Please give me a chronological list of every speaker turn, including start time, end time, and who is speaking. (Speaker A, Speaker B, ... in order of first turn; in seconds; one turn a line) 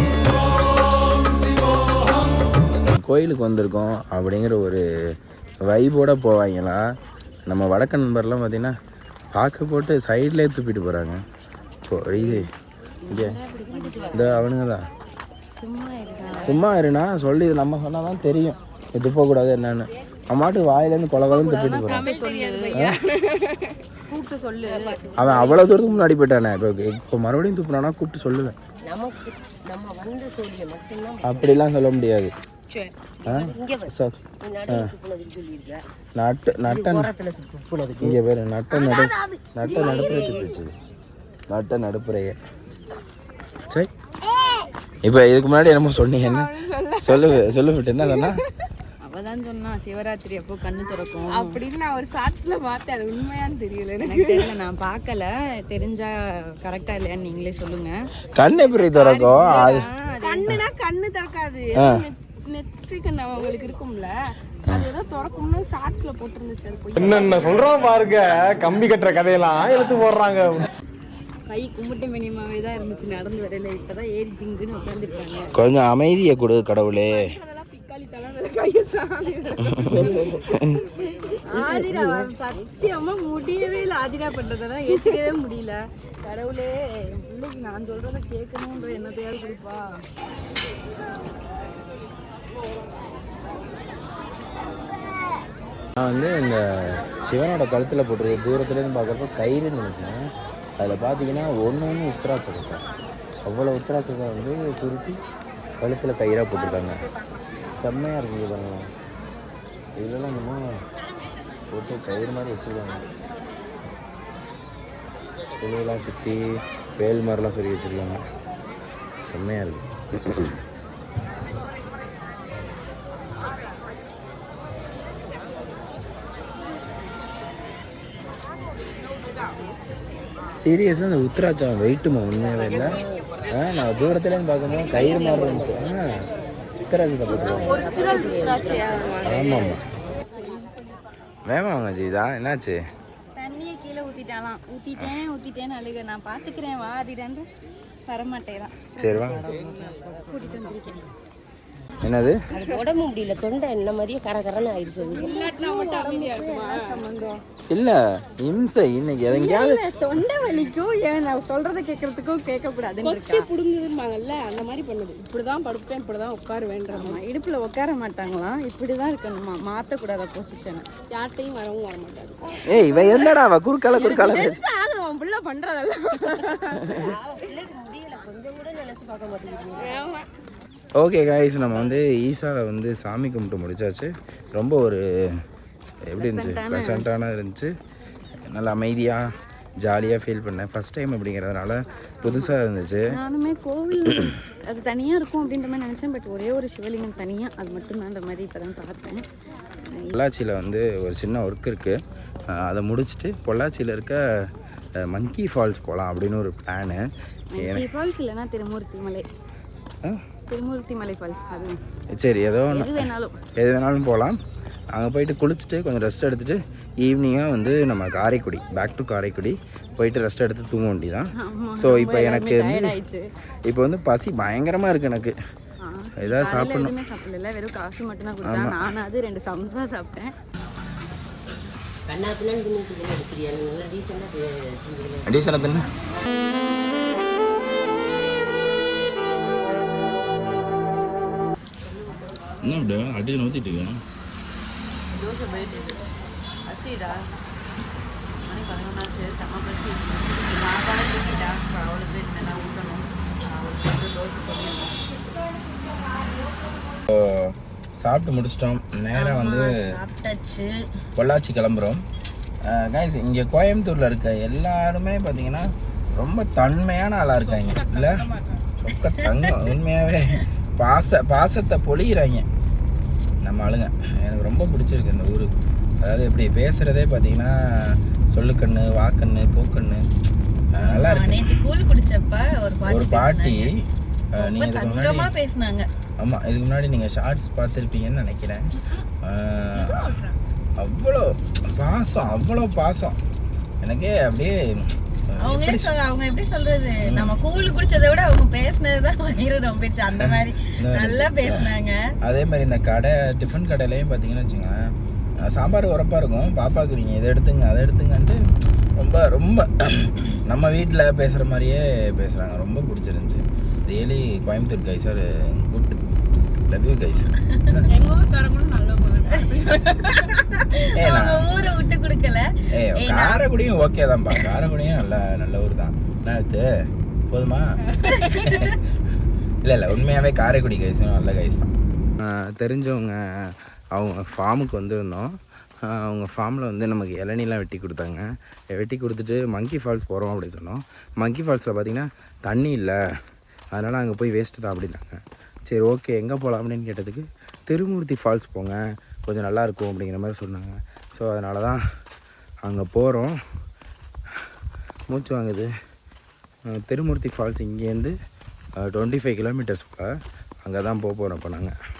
Speaker A: 2.9-4.8
Speaker A: 5.6-6.8
Speaker A: 7.5-8.7
Speaker A: 9.3-11.2
Speaker A: 11.9-12.4
Speaker B: 13.1-14.4
Speaker A: 13.1-13.3
Speaker C: 13.1-14.4
Speaker A: 14.1-14.8
Speaker C: 15.6-16.6
Speaker A: 16.4-22.1
Speaker C: 21.3-23.0
Speaker B: 21.3-21.9
Speaker D: 22.0-23.5
Speaker C: 24.1-25.6
Speaker B: 24.7-25.9
Speaker A: 25.2-28.5
Speaker B: 28.8-31.5
Speaker A: 31.2-32.3
Speaker B: 33.2-35.8
Speaker A: 33.2-34.1
Speaker A: 36.1-37.1
Speaker B: 36.6-38.2
Speaker A: 38.0-40.7
Speaker B: 38.7-40.5
Speaker A: 41.5-42.4
Speaker A: 45.0-48.4
Speaker D: 46.2-47.4
Speaker C: 49.0-51.6
Speaker D: 51.3-54.5
Speaker C: 54.0-57.9
Speaker A: 58.4-59.9
Speaker C: 58.9-60.6
Speaker D: 60.2-64.1
Speaker A: 61.8-62.0
Speaker D: 64.7-67.6
Speaker E: 67.0-70.7
Speaker C: 71.5-75.5
Speaker A: 75.5-77.3
Speaker D: 77.3-79.8
Speaker C: 77.4-77.7
Speaker C: 79.1-80.2
Speaker A: 79.6-80.8
Speaker B: 80.1-80.4
Speaker C: 81.5-89.9
Speaker B: 81.6-82.3
Speaker A: 96.0-100.2
Speaker A: 100.8-102.8
Speaker A: 103.4-105.2
Speaker A: 105.8-107.0
Speaker A: 107.8-108.9
Speaker A: 110.0-110.6
Speaker A: 111.7-113.1
Speaker A: 115.6-116.4
Speaker A: 117.0-118.2
Speaker A: 119.2-120.5
Speaker A: 130.6-136.2
Speaker B: 132.6-133.2
Speaker B: 134.8-135.9
Speaker A: 136.8-137.8
Speaker B: 137.2-139.2
Speaker C: 137.7-139.7
Speaker D: 137.8-139.6
Speaker A: 139.2-139.8
Speaker A: 141.5-142.8
Speaker C: 143.3-147.4
Speaker C: 148.1-149.7
Speaker A: 149.0-149.5
Speaker B: 149.1-151.0
Speaker C: 150.3-151.1
Speaker A: 152.0-152.4
Speaker B: 152.5-155.3
Speaker C: 155.2-157.4
Speaker D: 155.2-157.0
Speaker A: 157.7-159.8
Speaker C: 159.3-163.5
Speaker D: 163.0-167.2
Speaker C: 166.9-170.8
Speaker D: 171.1-172.6
Speaker A: 172.7-174.6
Speaker C: 172.7-173.4
Speaker C: 173.9-177.2
Speaker B: 176.9-180.0
Speaker C: 179.9-180.1
Speaker A: 180.9-185.0
Speaker A: 186.1-187.7
Speaker C: 186.2-187.1
Speaker A: 188.4-193.1
Speaker C: 192.2-192.5
Speaker C: 193.1-199.2
Speaker C: 199.8-200.1
Speaker A: 200.1-201.9
Speaker A: 202.5-204.2
Speaker A: 205.0-207.0
Speaker C: 207.5-209.2
Speaker A: 207.6-207.8
Speaker C: 210.5-211.8
Speaker A: 212.2-214.4
Speaker C: 212.7-213.4
Speaker A: 214.9-222.9
Speaker C: 221.4-223.2
Speaker A: 223.7-225.3
Speaker C: 225.8-230.3
Speaker A: 226.2-226.9
Speaker A: 228.4-228.8
Speaker B: 232.1-235.3
Speaker A: 235.3-235.9
Speaker A: 242.6-244.0
Speaker C: 245.1-246.1
Speaker C: 246.6-247.2
Speaker C: 248.5-255.0
Speaker A: 257.1-259.9
Speaker C: 259.1-260.8
Speaker A: 261.2-262.0
Speaker A: 262.6-268.3
Speaker D: 267.6-268.6
Speaker A: 268.8-272.4
Speaker C: 269.1-269.6
Speaker A: 273.4-280.0
Speaker A: 280.7-281.5
Speaker C: 280.8-283.7
Speaker A: 282.9-285.3
Speaker C: 284.4-285.9
Speaker A: 286.2-288.7
Speaker A: 289.2-290.0
Speaker C: 289.7-290.4
Speaker A: 290.8-293.2
Speaker A: 293.8-295.9
Speaker C: 295.4-302.0
Speaker A: 297.1-297.3
Speaker A: 300.2-301.6
Speaker A: 302.2-304.8
Speaker A: 305.4-308.4
Speaker A: 309.0-316.0
Speaker A: 316.7-317.8
Speaker C: 317.9-323.4
Speaker D: 318.0-319.8
Speaker A: 321.0-321.4
Speaker A: 322.7-326.6
Speaker A: 327.3-328.8
Speaker C: 327.9-328.8
Speaker A: 329.6-335.3
Speaker A: 335.9-342.9
Speaker A: 343.7-351.8
Speaker A: 352.6-353.3
Speaker A: 355.1-355.7
Speaker A: 356.7-358.1
Speaker A: 358.8-360.1
Speaker A: 360.6-361.7